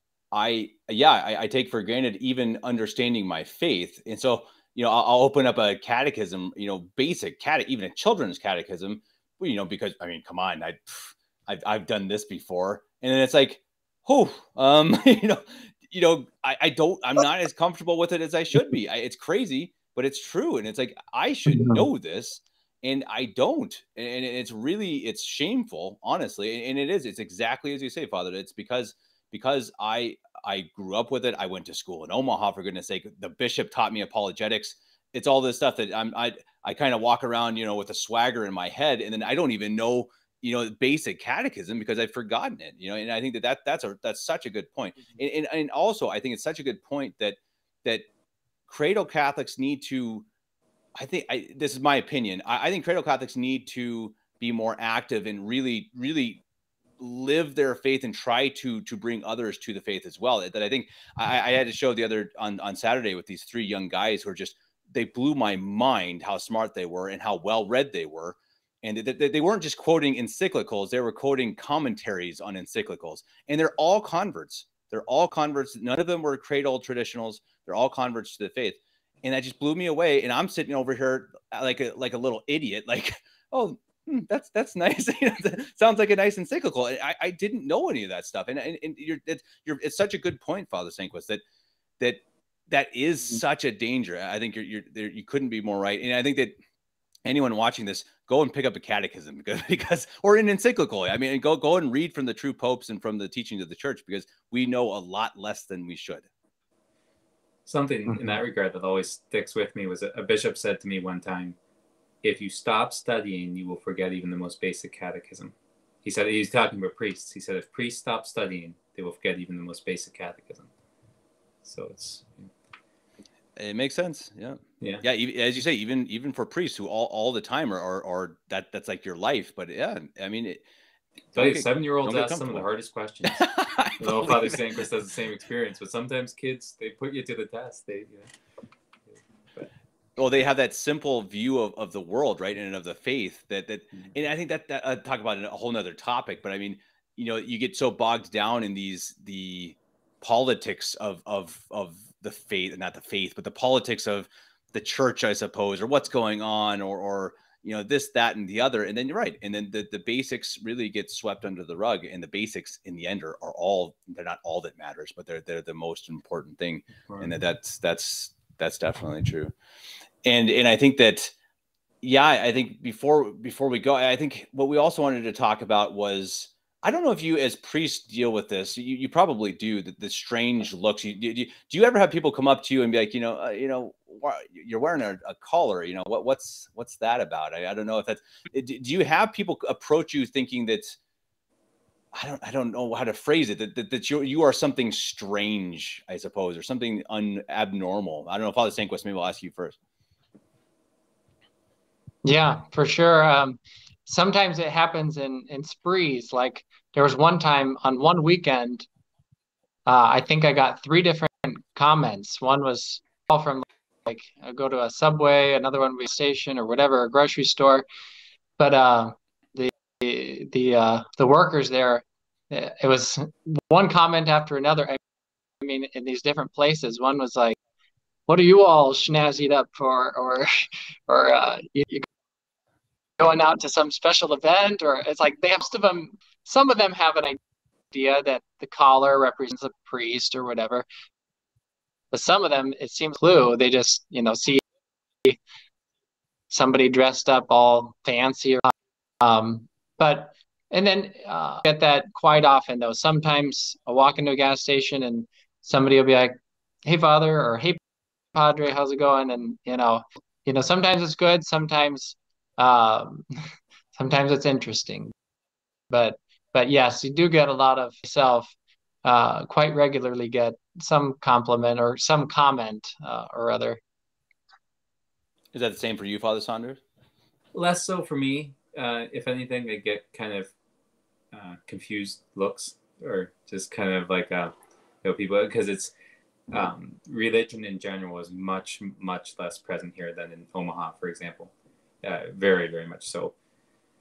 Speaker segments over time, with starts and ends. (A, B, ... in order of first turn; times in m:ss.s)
0:00.3-0:48.1 A
0:21.5-0:21.8 B
0:48.7-0:50.3 A
0:51.0-0:56.4 A
0:57.0-1:31.4 A
1:32.0-1:36.6 A
1:37.2-1:46.3 A
1:47.7-1:51.6 C
1:52.2-2:00.7 C
2:01.6-2:02.5 C
2:03.6-2:10.6 A
2:11.3-2:12.6 A
2:11.4-2:13.5 C
2:13.2-2:14.8 A
2:14.0-2:18.3 C
2:19.1-2:19.7 C
2:20.2-2:49.5 A
2:50.2-2:51.3 A
2:52.0-3:11.0 A
3:12.1-3:19.8 A
3:22.2-3:28.9 B
3:29.9-3:37.8 B
3:38.6-3:45.0 B
3:45.6-3:47.6 B
3:48.3-3:52.1 B
3:53.2-3:57.4 B
3:57.9-4:00.9 B
4:02.1-4:04.6 B
4:06.5-4:17.8 B
4:18.3-4:23.3 B
4:24.0-4:25.1 B
4:25.9-4:33.8 B
4:35.5-4:36.8 A
4:37.5-4:40.5 C
4:41.3-4:45.9 C
4:46.5-4:51.5 C
4:52.0-4:53.3 C